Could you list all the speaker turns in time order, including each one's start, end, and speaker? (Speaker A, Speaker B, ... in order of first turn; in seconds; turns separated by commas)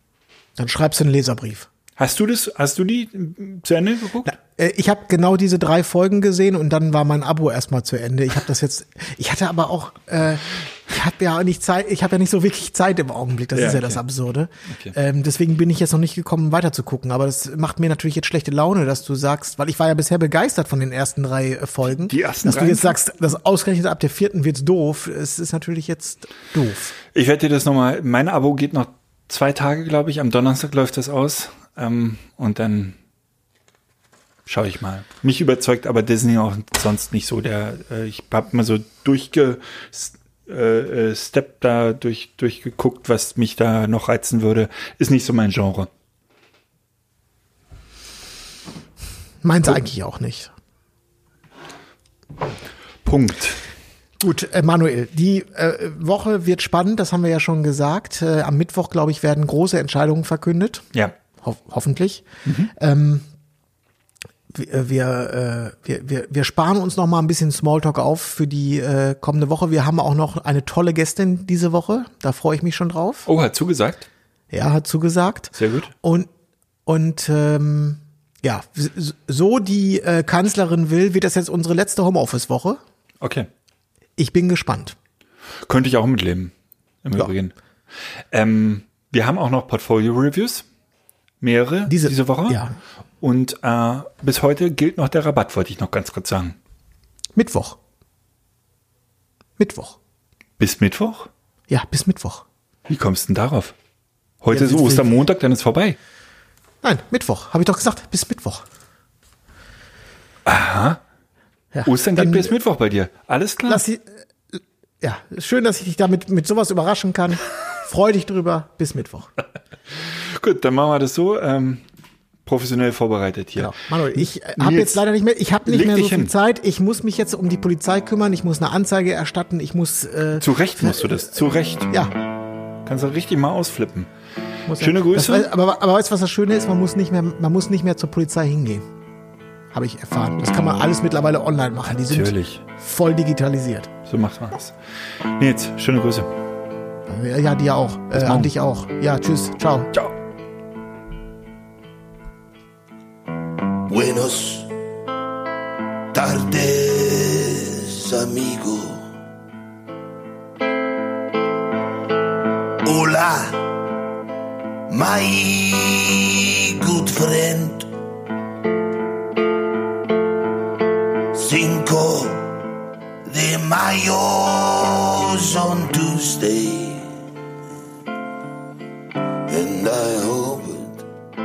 Speaker A: 0.6-1.7, Speaker B: 2.0-4.3, Speaker A: 4.2-26.9, Speaker B: 13.5-14.0, Speaker B: 21.8-23.0, Speaker B: 27.1-33.0, Speaker B: 34.5-45.9, Speaker A: 49.4-50.5, Speaker B: 53.0-53.6, Speaker A: 54.2-60.9, Speaker A: 61.4-63.2, Speaker B: 62.5-62.7, Speaker A: 64.5-73.3, Speaker B: 73.2-74.1, Speaker A: 74.5-76.3, Speaker B: 75.5-75.9, Speaker A: 76.8-82.8, Speaker B: 83.2-83.5, Speaker A: 84.2-85.0, Speaker B: 85.7-87.5, Speaker B: 88.3-90.7, Speaker B: 91.4-92.6, Speaker A: 91.9-92.8, Speaker B: 93.2-96.5, Speaker A: 97.3-97.8, Speaker A: 99.6-100.0, Speaker B: 100.6-101.3, Speaker A: 101.7-102.4, Speaker B: 102.9-103.7, Speaker B: 104.4-106.0, Speaker A: 104.5-105.1, Speaker A: 106.8-108.6, Speaker B: 110.5-111.0, Speaker A: 111.7-112.5, Speaker B: 111.8-113.8, Speaker A: 113.7-119.3, Speaker B: 119.9-121.8, Speaker B: 122.4-125.0, Speaker A: 123.5-132.1, Speaker B: 125.7-126.3, Speaker B: 130.4-131.9, Speaker B: 132.8-134.1, Speaker A: 134.7-138.8, Speaker B: 134.7-135.5, Speaker A: 139.7-143.9, Speaker B: 142.1-142.6, Speaker B: 144.1-146.3, Speaker A: 147.1-149.9, Speaker B: 148.2-148.5, Speaker C: 153.9-154.7, Speaker C: 156.1-159.1, Speaker C: 162.8-163.6, Speaker C: 164.9-167.9, Speaker C: 171.3-172.5, Speaker C: 173.2-177.1, Speaker C: 179.5-181.1